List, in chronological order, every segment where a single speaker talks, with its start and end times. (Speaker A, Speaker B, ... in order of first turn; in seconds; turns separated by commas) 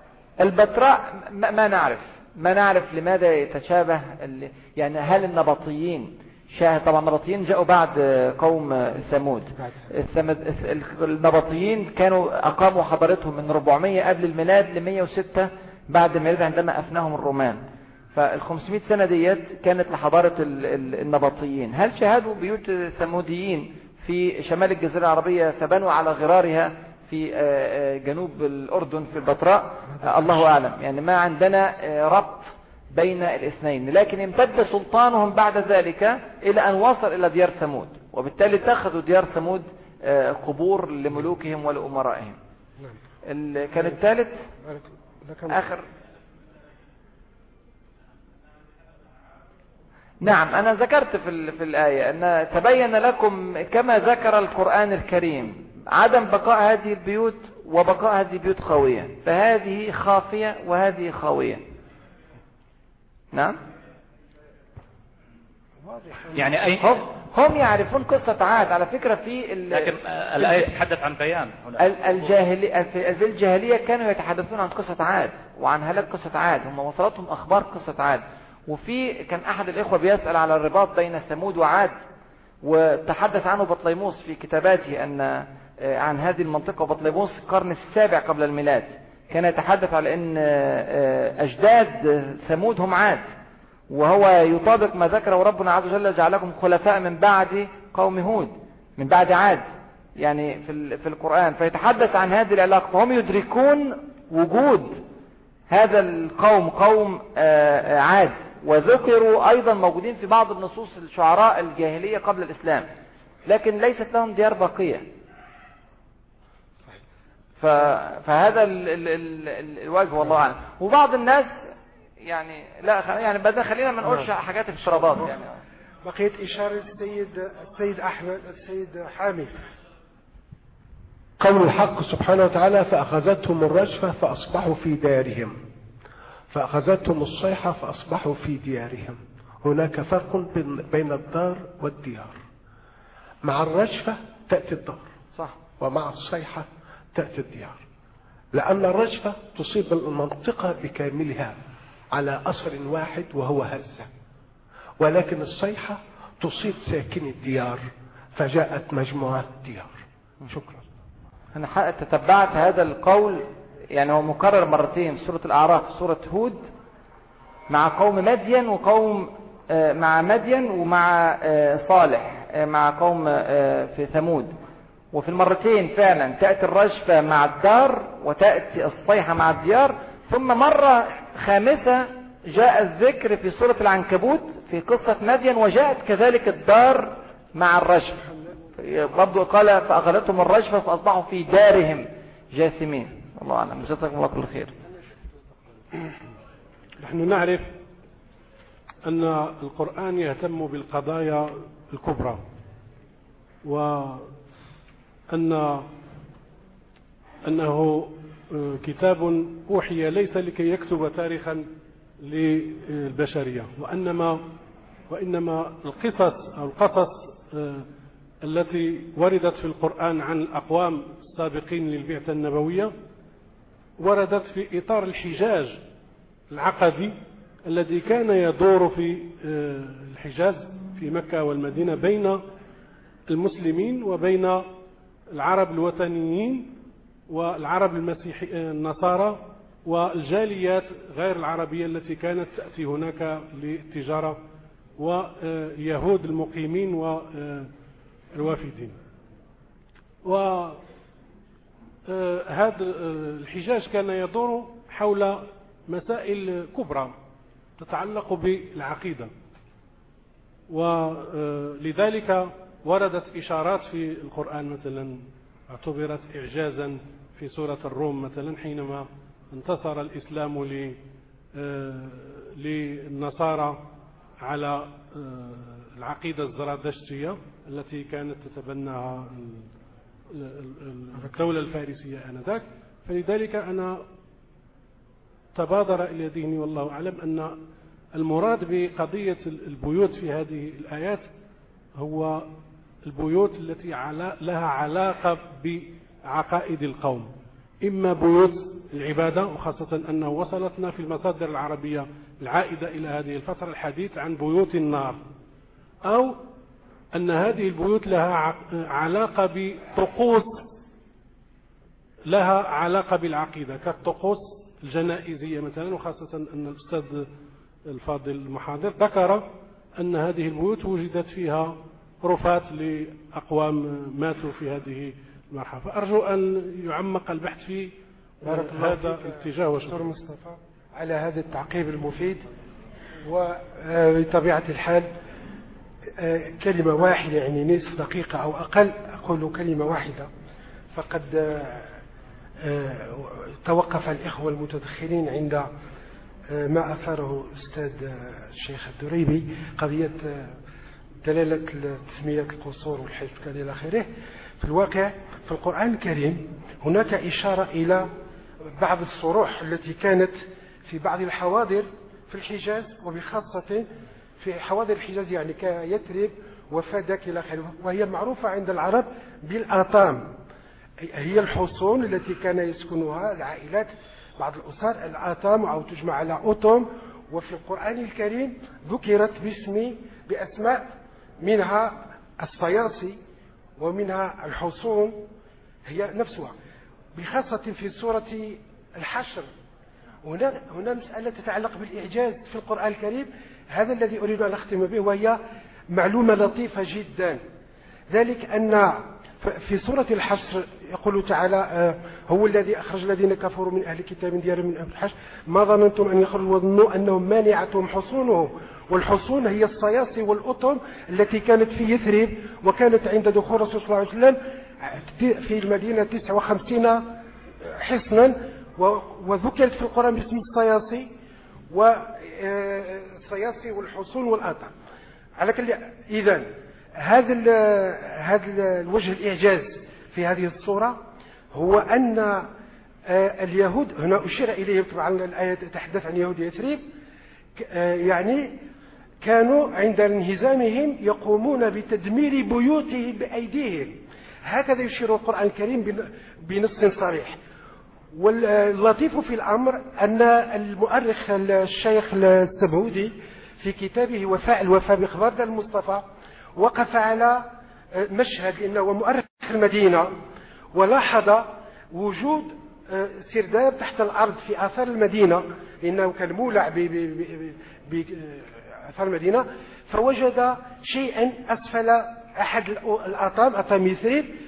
Speaker A: 0.4-17.6, Speaker B: 9.6-9.9, Speaker A: 18.1-42.4, Speaker B: 29.9-30.4, Speaker A: 43.2-44.4, Speaker B: 43.7-44.0, Speaker B: 44.6-45.7, Speaker A: 45.5-45.8, Speaker A: 50.2-61.6, Speaker B: 65.8-66.6, Speaker C: 66.3-67.0, Speaker A: 66.8-70.7, Speaker C: 69.7-72.4, Speaker A: 71.8-81.9, Speaker A: 82.6-93.2, Speaker A: 93.9-99.6, Speaker A: 100.2-105.0, Speaker A: 105.7-112.9, Speaker A: 113.5-115.0, Speaker A: 117.6-121.6, Speaker A: 122.2-125.5, Speaker B: 126.0-129.5, Speaker D: 131.4-135.6, Speaker D: 136.5-142.4, Speaker D: 143.4-145.0, Speaker D: 145.8-147.8, Speaker D: 148.5-151.6, Speaker D: 152.1-154.1, Speaker D: 155.0-159.9, Speaker D: 160.5-160.8, Speaker A: 161.5-166.7, Speaker A: 167.7-174.5, Speaker A: 175.1-194.7, Speaker E: 197.0-197.7, Speaker E: 199.1-202.4, Speaker E: 203.6-204.3, Speaker E: 205.3-205.8, Speaker E: 207.4-211.7, Speaker E: 212.2-214.4, Speaker E: 215.1-217.8, Speaker E: 218.4-222.9, Speaker E: 224.0-225.8, Speaker E: 226.5-227.2, Speaker E: 227.7-232.4, Speaker E: 233.3-234.7, Speaker E: 235.3-236.7, Speaker E: 237.3-244.4, Speaker E: 245.0-247.7, Speaker E: 248.3-249.0, Speaker E: 250.2-250.8, Speaker E: 252.1-257.1, Speaker E: 257.8-259.3, Speaker E: 260.7-271.0, Speaker E: 271.6-273.8, Speaker E: 274.4-279.7, Speaker E: 280.3-284.0, Speaker E: 285.5-287.5, Speaker E: 288.2-291.3, Speaker E: 292.0-292.5, Speaker E: 293.0-297.3, Speaker E: 297.8-305.2, Speaker E: 306.1-306.4, Speaker E: 307.1-310.7, Speaker E: 312.3-317.3, Speaker E: 317.9-319.5, Speaker E: 320.0-327.9, Speaker E: 328.4-330.1, Speaker B: 328.4-332.4, Speaker B: 333.2-335.1, Speaker B: 336.2-340.3, Speaker B: 340.9-342.0, Speaker B: 342.6-345.7, Speaker B: 346.5-350.6, Speaker B: 351.2-354.1, Speaker B: 354.6-358.1, Speaker B: 358.7-363.9, Speaker B: 364.4-370.3, Speaker B: 371.0-383.2, Speaker B: 383.8-385.2, Speaker B: 385.8-386.5, Speaker B: 387.1-389.5, Speaker B: 390.2-395.4, Speaker B: 395.9-397.4, Speaker B: 398.1-421.1, Speaker B: 421.7-424.7, Speaker B: 425.4-431.0, Speaker B: 431.5-432.5, Speaker B: 433.1-436.9, Speaker B: 437.6-438.6, Speaker B: 439.2-447.4, Speaker B: 448.1-460.1, Speaker B: 460.7-474.3